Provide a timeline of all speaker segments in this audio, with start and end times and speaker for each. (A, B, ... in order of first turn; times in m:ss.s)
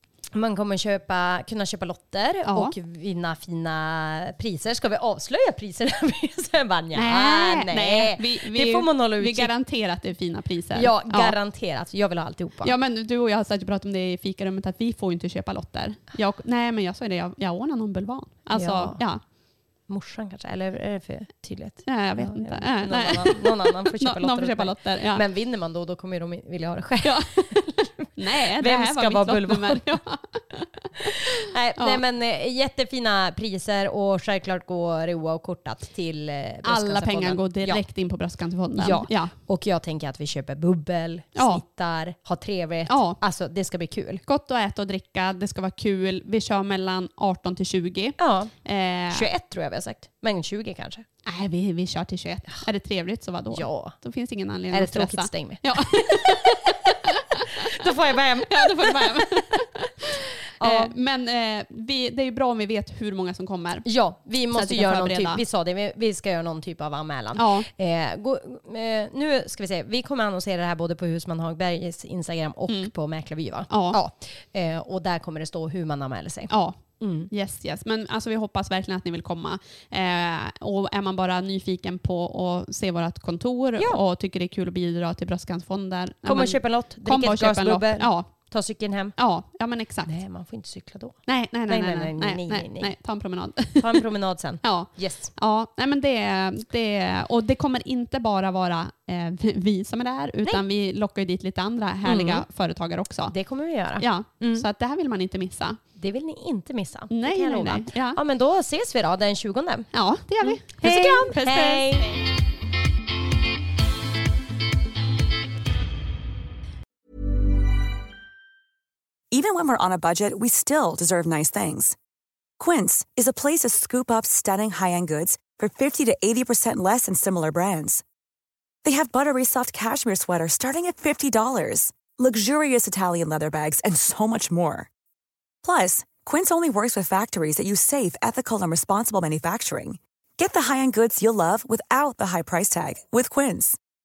0:00.3-0:09.5 A
0:02.4-0:02.7 B
0:06.9-0:11.4 B
0:10.7-0:12.7 A
0:12.6-0:19.2 B
0:18.5-0:19.0 A
0:19.9-0:29.8 A
0:21.8-0:25.2 B
0:27.0-0:31.2 B
0:31.0-0:37.8 A
0:36.6-0:39.3 B
0:38.8-0:44.2 A
0:41.4-0:41.6 B
0:42.9-0:43.2 B
0:44.3-0:49.3 B
0:48.2-0:48.5 A
0:49.1-0:51.0 A
0:51.2-0:57.0 B
0:53.5-0:54.0 A
0:54.7-0:56.6 A
0:57.8-0:59.6 A
0:58.5-1:05.4 B
1:00.6-1:01.0 A
1:03.8-1:17.3 A
1:07.4-1:07.7 B
1:13.7-1:14.0 B
1:16.5-1:28.5 B
1:23.8-1:24.0 A
1:26.2-1:29.2 A
1:29.2-1:30.2 B
1:30.0-1:32.9 A
1:31.3-1:34.0 B
1:33.8-1:35.3 A
1:34.6-1:43.3 B
1:42.0-1:42.4 A
1:43.3-1:44.6 A
1:44.0-1:45.8 B
1:46.0-1:52.1 A
1:47.1-1:48.2 B
1:49.9-1:52.2 B
1:59.3-2:02.0 C
2:02.6-2:08.0 C
2:08.8-2:14.9 C
2:15.6-2:23.8 C